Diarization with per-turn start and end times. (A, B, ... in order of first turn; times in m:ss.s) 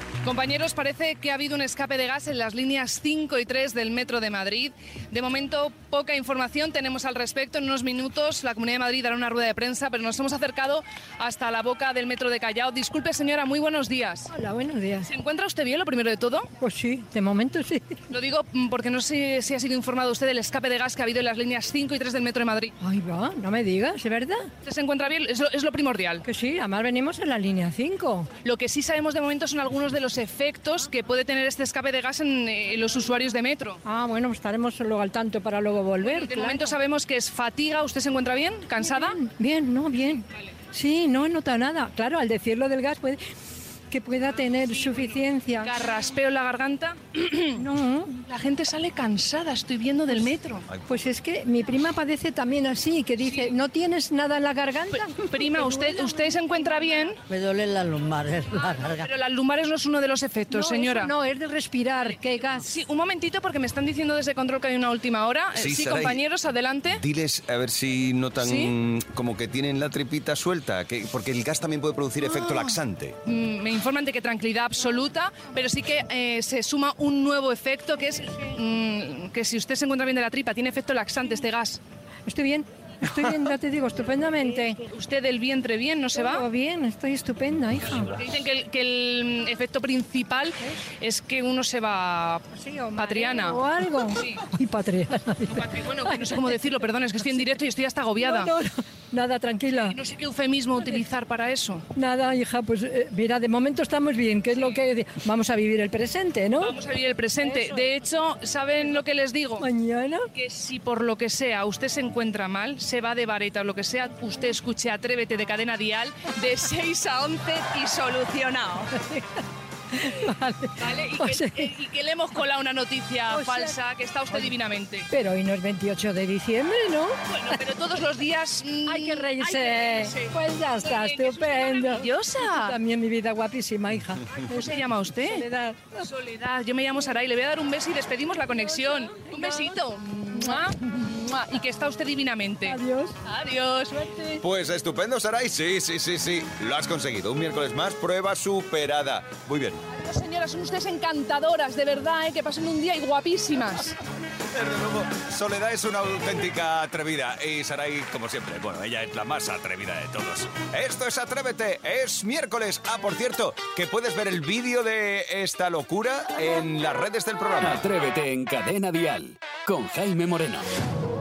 0:00.2-0:14.3 A
0:14.3-0:15.1 B
0:15.0-0:16.5 A
0:16.6-0:17.8 B
0:18.1-0:22.7 A
0:22.8-0:24.5 B
0:24.6-0:26.2 A
0:26.2-0:28.3 B
0:28.4-0:33.8 A
0:33.8-0:36.8 B
0:36.0-0:39.2 A
0:38.8-0:43.2 B
0:43.9-0:45.7 B
0:44.5-0:47.6 A
0:47.6-0:48.2 B
0:48.2-0:50.6 A
0:50.7-0:51.1 C
0:50.9-0:57.1 B
0:53.2-0:53.5 A
0:54.9-0:57.2 A
0:58.5-1:01.1 A
1:00.5-1:02.7 B
1:02.0-1:07.0 A
1:05.5-1:06.2 C
1:06.9-1:13.2 C
1:08.4-1:08.7 A
1:12.2-1:12.7 A
1:13.2-1:21.8 A
1:22.3-1:24.8 B
1:24.9-1:26.4 A
1:26.1-1:28.2 B
1:28.1-1:32.4 A
1:32.5-1:37.6 B
1:33.0-1:33.6 A
1:35.5-1:38.5 A
1:38.2-1:40.0 B
1:39.7-1:41.8 A
1:40.8-1:41.0 B
1:41.9-1:46.8 B
1:46.6-1:49.7 A
1:47.4-1:47.9 B
1:49.6-1:50.2 B
1:50.3-1:58.9 A
1:59.0-1:59.2 B
1:59.9-2:01.7 B
2:00.8-2:05.0 A
2:03.3-2:03.8 B
2:04.3-2:04.6 B
2:05.1-2:07.6 B
2:07.3-2:12.8 A
2:08.8-2:16.1 B
2:14.5-2:15.5 A
2:16.0-2:24.4 A
2:18.6-2:21.1 B
2:22.6-2:23.1 B
2:23.9-2:24.4 B
2:24.4-2:29.8 C
2:30.0-2:34.0 A
2:34.5-2:47.8 C
2:47.6-2:50.6 D